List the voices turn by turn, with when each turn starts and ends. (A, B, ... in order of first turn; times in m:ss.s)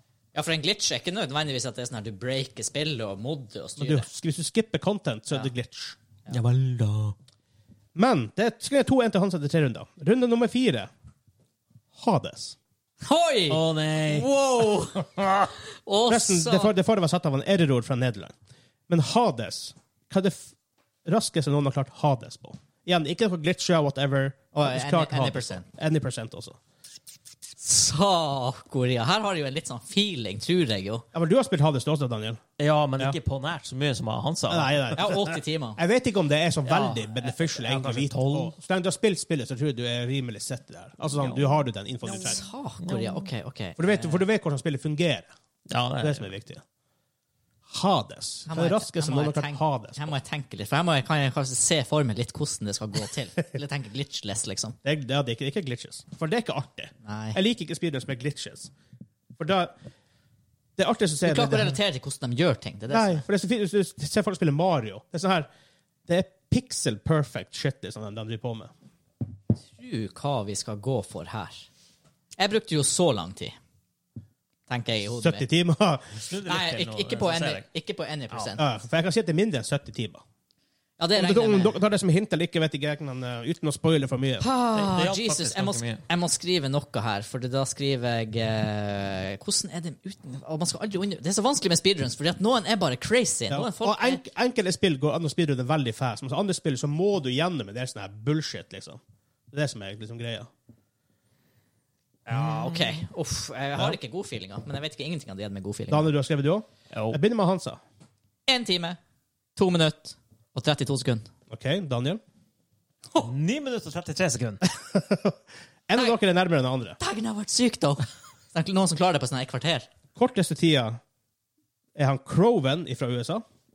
0:00.3-0:04.1 A
0:03.8-0:06.0 B
0:06.3-0:07.2 C
0:07.9-0:10.9 B
0:11.9-0:12.6 B
0:13.0-0:15.0 A
0:13.5-0:14.3 C
0:14.9-0:15.5 C
0:15.8-0:16.7 A
0:16.1-0:18.3 B
0:18.9-0:20.5 B
0:21.0-0:26.6 B
0:24.5-0:25.6 A
0:27.6-0:31.0 A
0:31.1-0:32.4 B
0:32.6-0:35.3 C
0:34.5-0:35.2 B
0:35.0-0:35.8 A
0:35.8-0:42.4 B
0:36.6-0:38.5 C
0:42.1-0:44.2 A
0:42.8-0:43.3 C
0:43.8-0:45.3 B
0:45.7-0:46.3 C
0:46.0-0:46.6 B
0:47.7-0:50.2 B
0:48.5-0:54.8 A
0:54.8-0:58.7 B
0:57.0-0:57.4 A
0:59.4-0:59.8 B
1:00.8-1:01.8 B
1:01.2-1:03.2 A
1:02.9-1:05.5 B
1:06.1-1:08.7 B
1:09.7-1:11.6 A
1:12.4-1:13.5 A
1:14.7-1:15.4 A
1:15.2-1:16.2 B
1:16.1-1:17.6 C
1:16.4-1:18.6 A
1:18.6-1:20.2 B
1:21.0-1:21.8 A
1:21.1-1:24.4 B
1:24.4-1:34.2 A
1:24.7-1:26.0 C
1:33.5-1:39.0 B
1:39.5-1:40.5 B
1:42.2-1:43.0 C
1:42.3-1:46.1 A
1:45.9-1:47.8 B
1:46.9-1:47.2 C
1:48.5-1:49.0 A
1:49.6-1:51.3 A
1:51.5-1:52.2 B
1:53.2-1:54.6 C
1:54.7-1:55.4 B
1:55.9-1:57.0 B
1:57.0-1:59.9 A
2:00.2-2:01.0 B
2:02.0-2:03.4 B